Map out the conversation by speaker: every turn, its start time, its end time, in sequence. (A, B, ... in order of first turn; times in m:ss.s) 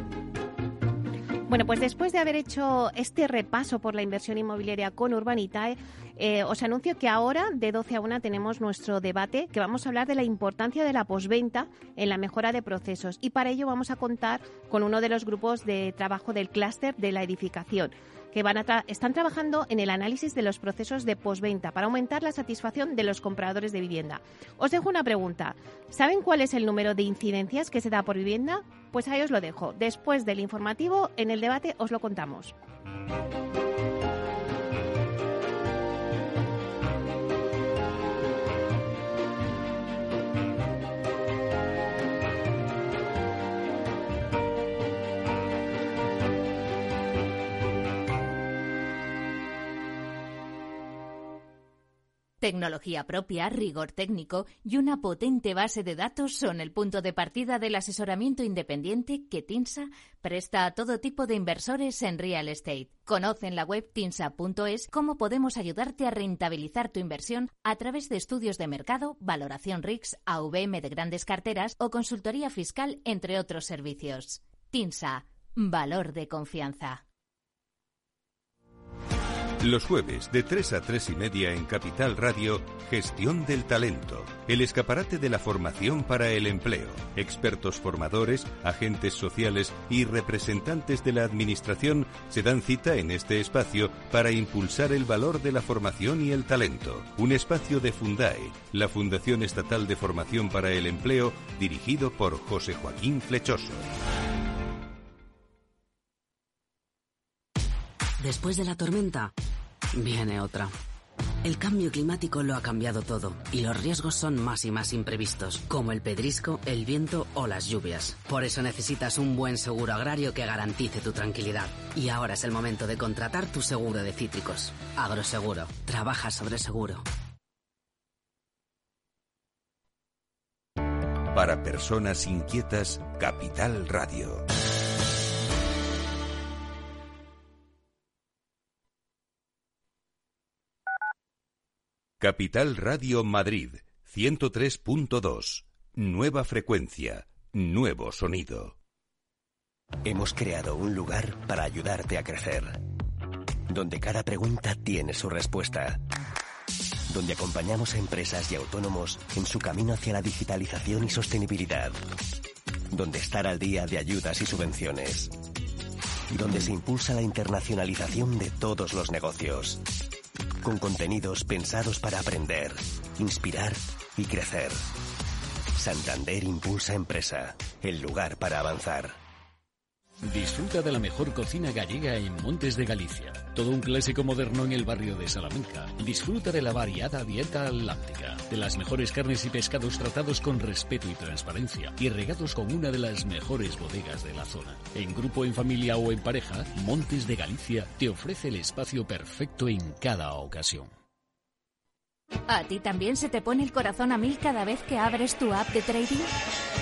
0:01.5-0:32.5 A
0:52.4-1:17.0 B
1:19.6-1:43.8 C
1:48.2-1:49.3 D
1:49.9-1:50.7 D
1:51.4-2:07.0 D
2:11.3-2:14.4 C
2:22.2-2:28.8 C
2:30.0-2:32.8 E
2:33.7-2:36.0 E
2:37.1-2:42.0 E
2:42.9-2:45.3 E
2:46.3-2:49.8 E
2:50.6-2:54.8 E
2:55.7-2:59.2 E
3:00.2-3:20.9 F
3:22.5-3:26.3 B